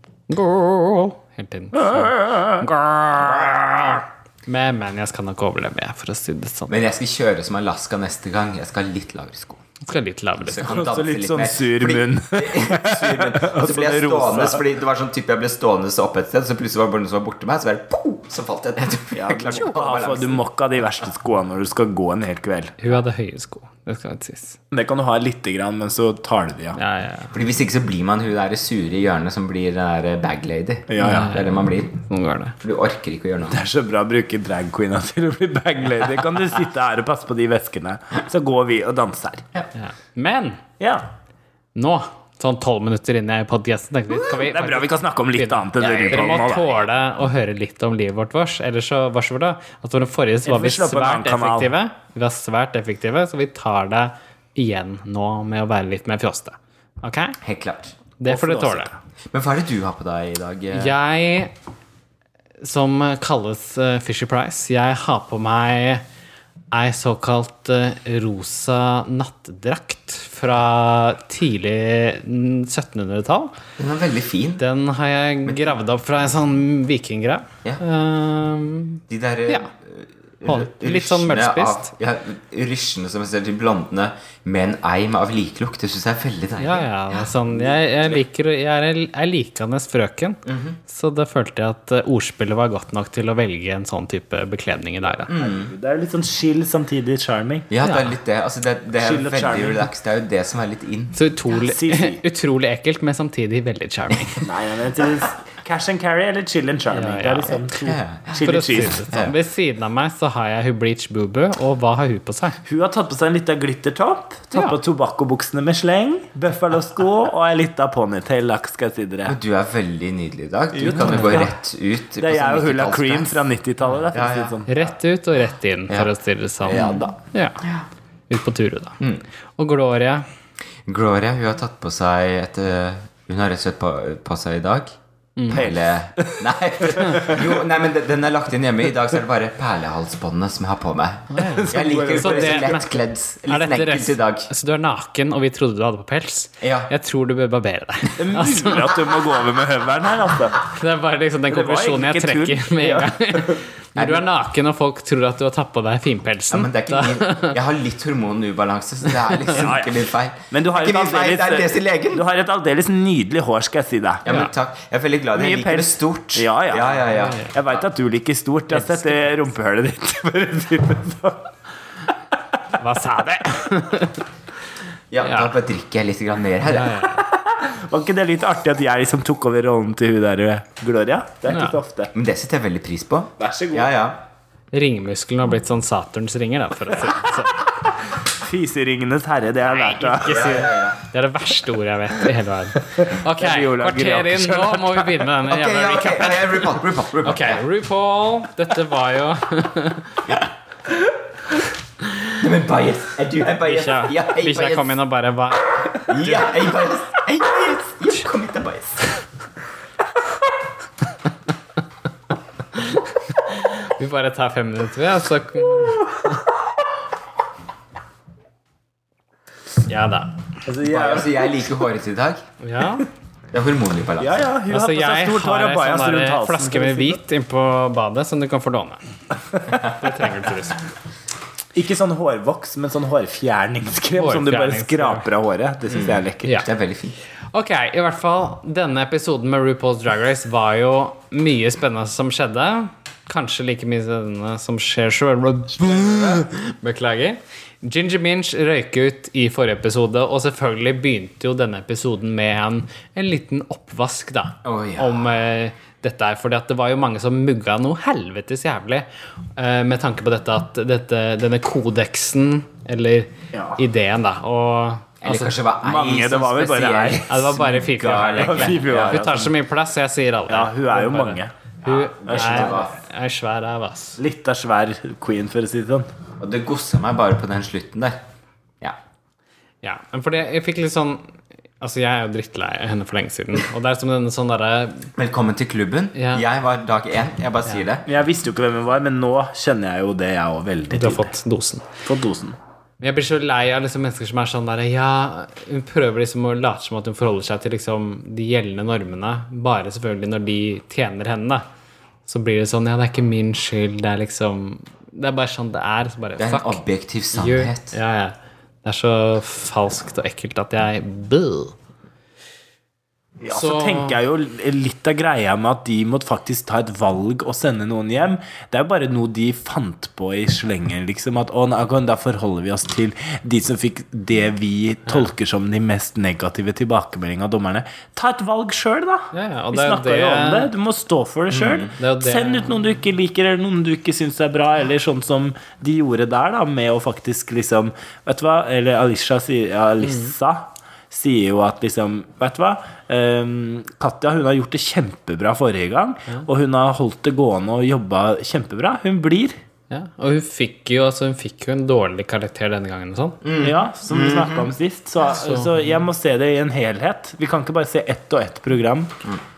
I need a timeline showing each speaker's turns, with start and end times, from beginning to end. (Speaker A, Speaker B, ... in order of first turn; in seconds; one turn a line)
Speaker A: 0.3-6.9
Speaker B: 1.8-2.7
Speaker C: 6.7-9.6
Speaker A: 9.8-10.8
Speaker C: 10.4-20.4
Speaker B: 10.7-14.7
Speaker B: 19.1-22.8
Speaker A: 22.8-24.6
Speaker B: 24.7-26.8
Speaker A: 26.8-27.3
Speaker C: 27.3-32.0
Speaker B: 30.9-31.4
Speaker A: 31.0-31.5
Speaker A: 32.0-32.6
Speaker C: 32.6-33.6
Speaker B: 33.5-39.5
Speaker A: 39.8-40.6
Speaker B: 40.8-41.1
Speaker A: 41.8-57.4
Speaker B: 44.2-46.7
Speaker C: 45.8-46.8
Speaker B: 50.5-51.7
Speaker C: 57.4-58.0
Speaker A: 58.2-58.9
Speaker B: 58.2-59.0
Speaker C: 59.3-61.0
Speaker A: 60.7-61.5
Speaker A: 62.6-66.0
Speaker A: 66.7-73.5
Speaker C: 73.8-74.6
Speaker A: 74.6-79.7
Speaker C: 75.5-75.7
Speaker C: 79.1-87.7
Speaker A: 80.5-81.9
Speaker A: 86.6-95.3
Speaker C: 90.5-90.8
Speaker B: 95.3-97.7
Speaker C: 95.3-95.7
Speaker C: 97.7-101.2
Speaker A: 97.8-98.1
Speaker B: 99.0-99.9
Speaker A: 101.2-104.5
Speaker B: 101.5-102.2
Speaker B: 104.4-109.1
Speaker A: 106.9-107.7
Speaker C: 107.8-108.3
Speaker A: 108.4-112.6
Speaker C: 109.1-109.4
Speaker B: 112.7-119.4
Speaker C: 119.2-123.3
Speaker B: 120.7-121.5
Speaker A: 121.1-121.4
Speaker B: 122.2-124.9
Speaker C: 124.1-124.6
Speaker A: 124.7-127.6
Speaker C: 126.6-127.1
Speaker B: 126.7-127.2
Speaker A: 128.3-129.0
Speaker A: 129.6-130.3
Speaker C: 130.9-134.9
Speaker A: 135.4-135.6
Speaker C: 135.5-144.5
Speaker B: 135.5-137.4
Speaker A: 137.0-137.3
Speaker A: 141.3-143.0
Speaker B: 141.4-142.8
Speaker A: 143.5-149.0
Speaker C: 146.6-146.9
Speaker B: 148.2-150.6
Speaker A: 150.6-157.6
Speaker B: 151.5-153.6
Speaker C: 154.0-154.2
Speaker C: 156.5-162.2
Speaker B: 159.5-164.3
Speaker C: 164.2-167.8
Speaker B: 165.3-171.5
Speaker A: 167.1-167.5
Speaker A: 168.7-169.3
Speaker A: 172.7-174.3
Speaker C: 175.1-177.1
Speaker A: 175.2-175.5
Speaker A: 176.7-177.3
Speaker B: 177.2-182.1
Speaker A: 181.5-181.8
Speaker C: 182.1-184.2
Speaker B: 183.4-183.9
Speaker A: 184.7-187.7
Speaker B: 188.2-190.7
Speaker A: 189.7-200.2
Speaker C: 190.3-191.0
Speaker B: 193.0-195.2
Speaker C: 195.5-197.6
Speaker C: 202.3-204.9
Speaker A: 203.6-206.5
Speaker C: 206.1-209.1
Speaker A: 212.8-216.3
Speaker A: 219.9-220.3
Speaker B: 220.7-221.6
Speaker C: 220.8-222.4
Speaker A: 222.6-223.1
Speaker C: 223.5-224.5
Speaker B: 224.2-227.2
Speaker A: 224.7-229.0
Speaker A: 229.6-230.8
Speaker B: 231.7-236.6
Speaker A: 234.2-235.3
Speaker C: 235.9-237.2
Speaker A: 236.4-236.7
Speaker A: 237.5-265.6
Speaker C: 254.6-255.3
Speaker B: 263.5-263.8
Speaker C: 265.2-269.3
Speaker B: 265.8-267.6
Speaker A: 267.3-274.2
Speaker B: 268.2-269.5
Speaker B: 270.5-271.5
Speaker C: 271.9-272.9
Speaker B: 272.2-272.9
Speaker B: 274.2-276.1
Speaker C: 276.4-278.2
Speaker A: 279.8-285.1
Speaker C: 285.2-288.1
Speaker A: 286.1-286.4
Speaker B: 288.1-291.3
Speaker A: 290.9-291.9
Speaker B: 292.1-292.6
Speaker A: 293.0-301.6
Speaker A: 302.3-306.8
Speaker C: 306.4-308.0
Speaker A: 307.3-311.8
Speaker B: 313.4-349.5
Speaker A: 313.5-314.2
Speaker A: 329.3-330.7
Speaker C: 331.5-331.9
Speaker A: 332.0-332.8
Speaker A: 340.0-340.3
Speaker A: 349.9-353.4
Speaker C: 353.4-354.7
Speaker B: 353.6-359.2
Speaker A: 355.2-355.9